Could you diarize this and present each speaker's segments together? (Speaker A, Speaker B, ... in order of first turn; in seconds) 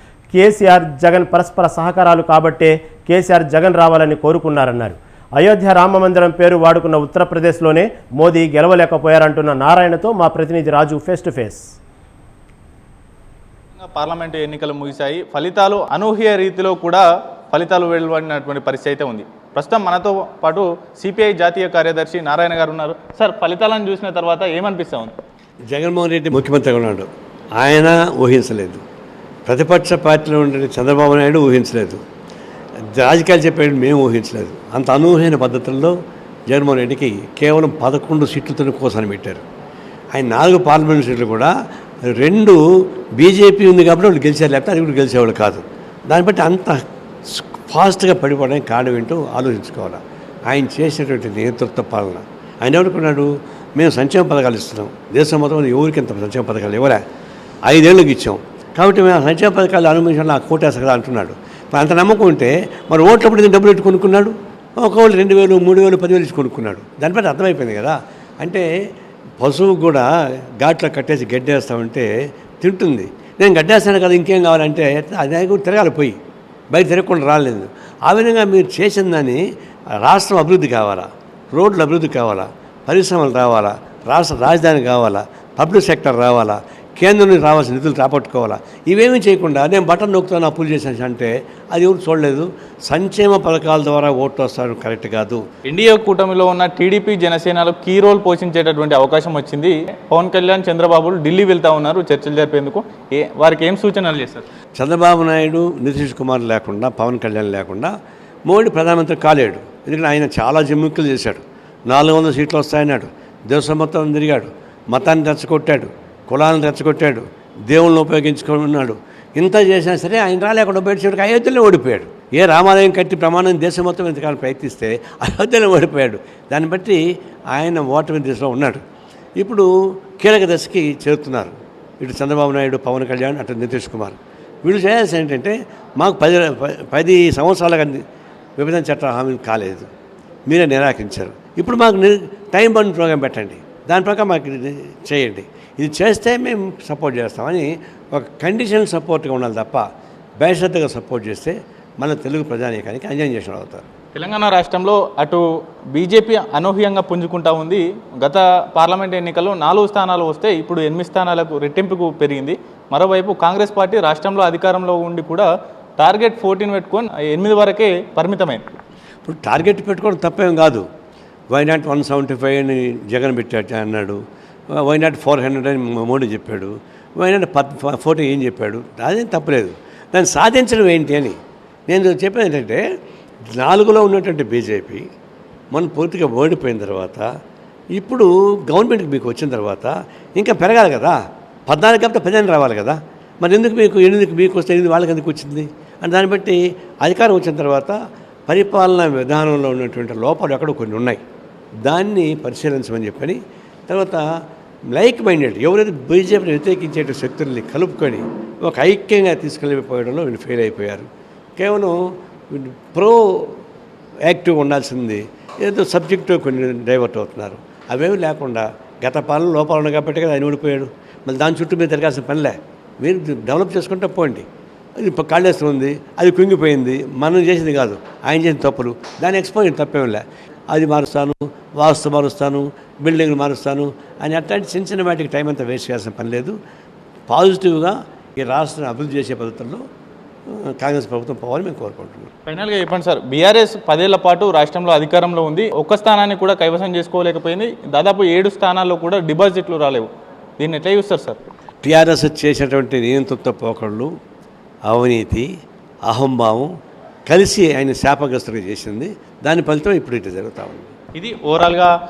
Speaker A: 0.3-11.7
Speaker B: 13.8-25.1, 95.7-104.5, 154.2-168.7, 242.5-251.4, 261.1-261.9
Speaker C: 25.7-28.8, 29.5-32.0, 32.9-36.0, 36.5-39.4, 40.1-41.5, 42.1-42.6, 43.2-57.0, 57.7-68.7, 69.4-70.1, 70.6-72.1, 72.6-76.2, 76.7-79.4, 80.0-95.4, 104.8-107.9, 108.5-127.0, 127.5-128.8, 129.4-138.0, 138.6-139.9, 140.5-149.8, 150.4-153.8, 169.2-170.8, 171.5-174.2, 174.7-181.4, 181.9-182.8, 183.5-185.0, 185.7-187.3, 187.9-201.2, 201.8-204.2, 204.9-212.0, 212.5-213.6, 214.3-224.5, 225.0-236.6, 237.3-239.8, 240.5-242.3, 251.8-254.1, 254.9-255.5, 256.1-256.7, 257.3-260.9